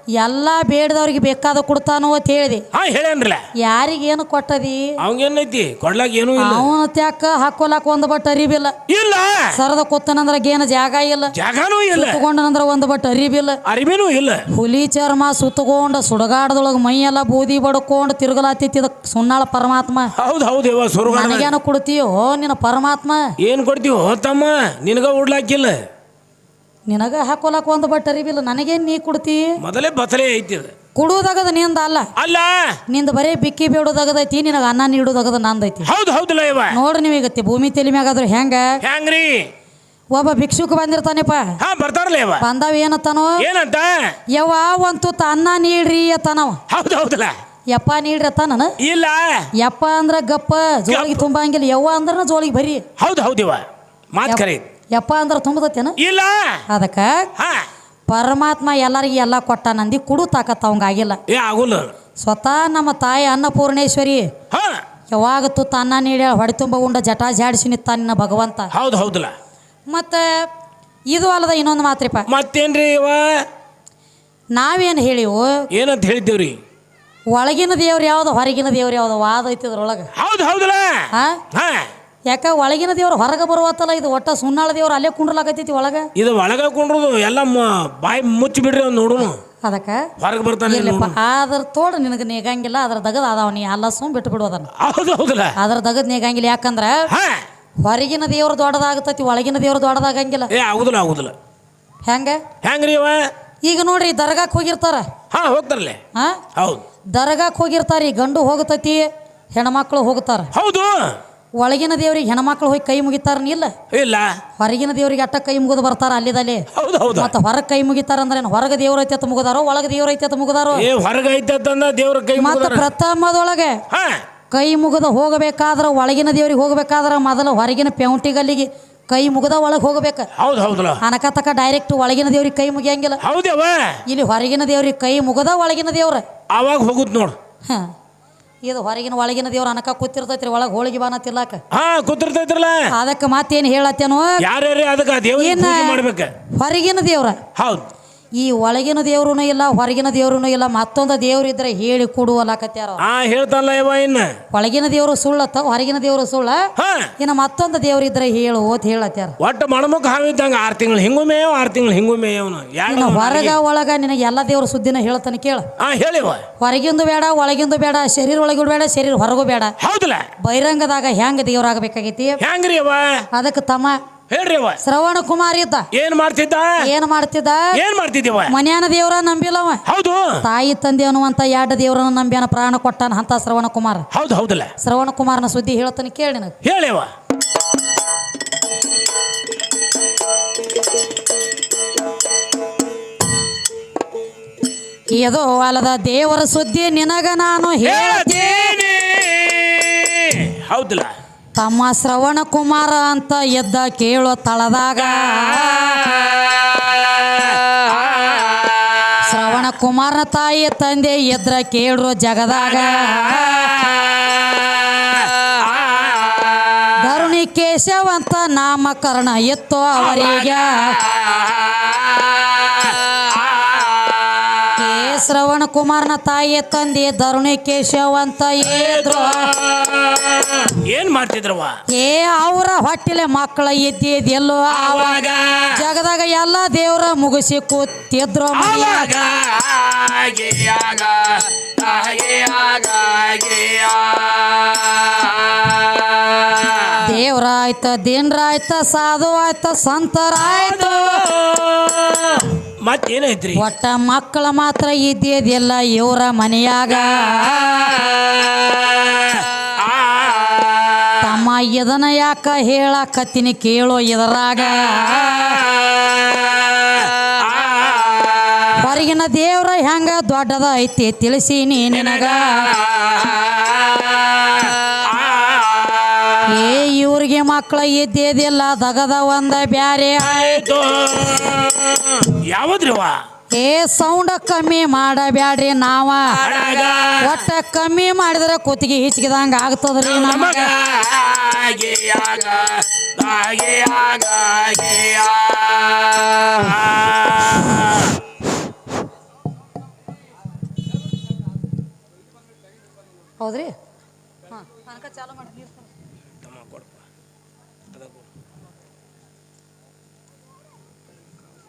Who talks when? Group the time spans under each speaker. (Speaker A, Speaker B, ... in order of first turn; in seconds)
Speaker A: 0.2-2.6, 3.6-4.9, 6.4-8.7, 9.5-11.3, 11.9-13.6, 14.5-20.1, 21.1-23.3, 26.9-29.5, 30.9-32.1, 32.9-35.9, 36.7-38.8, 40.1-41.5, 42.4-43.4, 44.3-46.6, 47.7-48.7, 49.6-52.8, 54.2-56.0, 56.7-57.3, 58.1-61.2, 62.2-64.3, 65.1-68.7, 69.9-70.5, 71.1-72.3, 74.5-75.7, 77.3-80.1, 81.1-81.4, 82.3-86.1, 89.6-90.1, 90.7-94.7, 95.6-97.1, 97.8-100.5, 102.0-102.4, 103.6-105.1, 106.1-106.4, 107.1-110.5, 111.6-113.7, 114.6-120.9, 122.4-123.8, 124.5-130.3, 131.0-133.2, 134.1-136.2, 138.6-141.6, 142.9-144.4, 145.4-146.0, 146.6-147.4, 148.4-153.0, 154.5-159.3, 162.9-165.7, 166.6-169.7, 170.4-172.4, 173.3-174.0, 174.8-175.9, 176.8-177.7, 178.5-179.8, 180.4-184.1, 184.8-186.5, 195.1-198.8, 201.6-206.0, 209.2-213.7, 217.0-221.0, 224.8-229.5, 231.9-235.2, 235.7-239.1, 247.0-251.2, 253.5-257.9, 261.2-265.6, 268.7-272.7, 276.5-280.6, 283.6-286.6, 287.2-290.7, 303.4-303.7, 304.5-305.9
Speaker B: 2.7-3.4, 5.0-6.7, 8.9-9.6, 11.3-12.2, 13.7-14.4, 20.1-21.5, 23.4-25.8, 29.6-30.7, 32.2-32.8, 35.8-36.8, 38.8-39.5, 41.6-42.5, 43.4-44.1, 46.7-47.3, 48.8-49.5, 50.9-51.2, 53.0-54.6, 56.0-56.6, 57.4-57.7, 61.3-61.9, 64.5-64.8, 68.7-69.3, 72.3-73.4, 75.7-76.6, 80.2-81.9, 86.2-89.4, 90.2-91.2, 94.8-95.5, 97.1-97.4, 100.5-101.3, 102.6-103.2, 105.3-106.0, 106.5-106.8, 110.5-111.1, 113.9-114.4, 116.7-117.3, 120.7-122.9, 123.9-124.2, 130.4-131.0, 133.2-134.0, 136.5-137.3, 141.7-142.9, 144.4-146.3, 147.6-147.9, 153.0-154.3, 156.8-157.1, 159.4-163.6, 165.8-166.4, 169.8-170.2, 172.4-173.2, 174.3-174.8, 175.9-176.8, 177.7-178.5, 179.8-180.4, 184.1-184.7, 186.6-187.1, 197.8-201.1, 205.7-208.6, 215.2-216.3, 220.0-224.6, 228.6-231.8, 234.7-235.8, 238.5-247.0, 250.4-253.7, 257.4-261.1, 267.4-268.6, 272.6-276.4, 280.2-283.2, 286.3-287.4, 290.0-298.2, 306.4-307.0, 307.9-308.3